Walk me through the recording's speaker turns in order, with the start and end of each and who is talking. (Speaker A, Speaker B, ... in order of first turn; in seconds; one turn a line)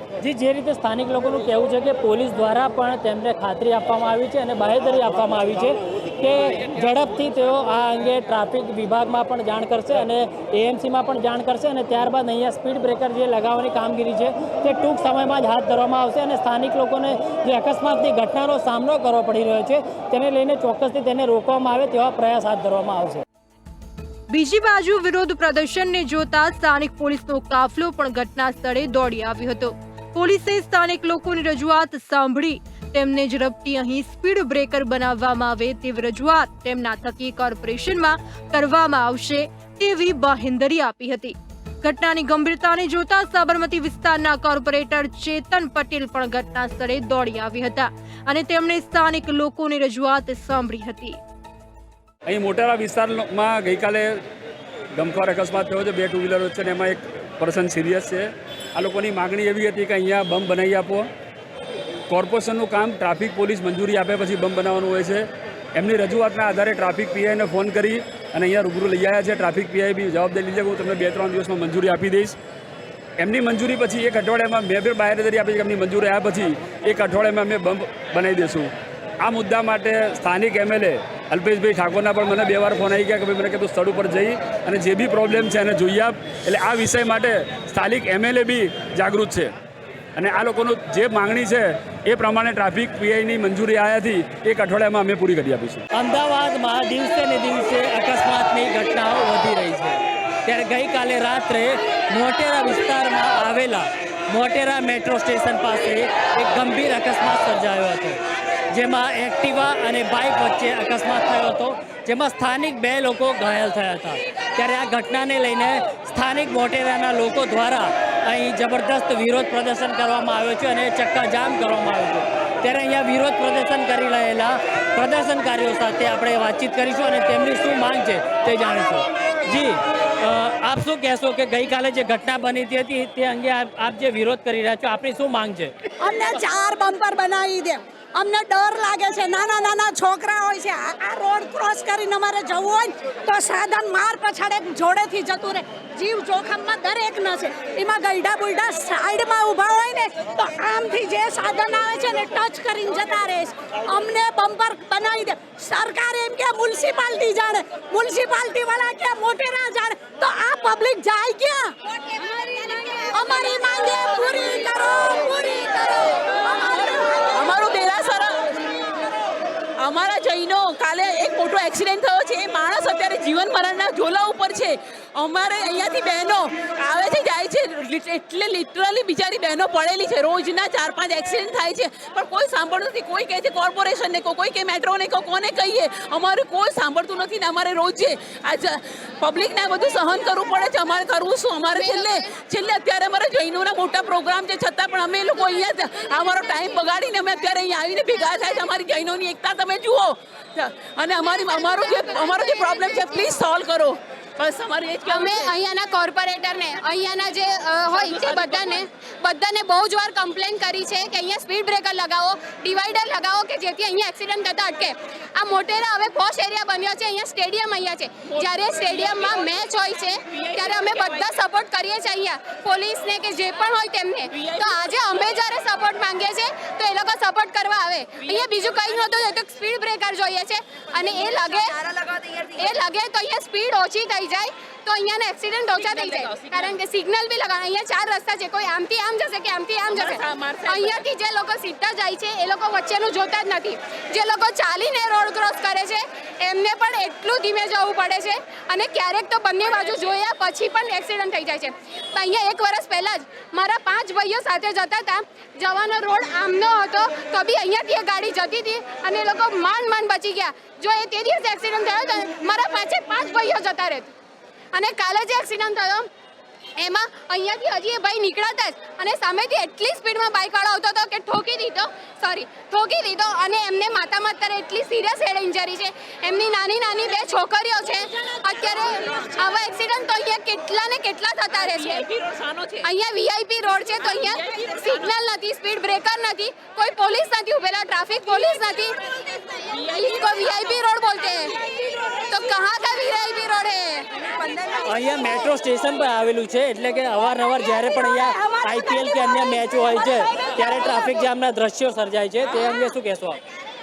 Speaker A: 0.2-23.2
Speaker B: 24.3-51.2
Speaker C: 52.3-54.2
Speaker C: 55.0-61.1
Speaker C: 62.1-65.2
Speaker C: 65.8-72.3
Speaker C: 73.2-78.7
Speaker C: 79.2-89.5
Speaker C: 90.2-95.8
Speaker A: 95.9-108.2
Speaker A: 108.7-135.7
Speaker D: 136.0-167.3
Speaker E: 167.3-168.4
Speaker E: 169.8-205.5
Speaker F: 191.7-192.2
Speaker F: 201.4-202.8
Speaker F: 205.1-264.1
Speaker E: 208.2-208.7
Speaker E: 220.3-220.8
Speaker E: 224.3-224.6
Speaker E: 235.8-236.6
Speaker E: 240.0-241.0
Speaker F: 264.7-266.1
Speaker F: 266.8-282.0
Speaker E: 281.9-282.8
Speaker F: 282.8-289.0
Speaker F: 289.5-291.6
Speaker F: 292.3-294.1
Speaker A: 294.7-303.4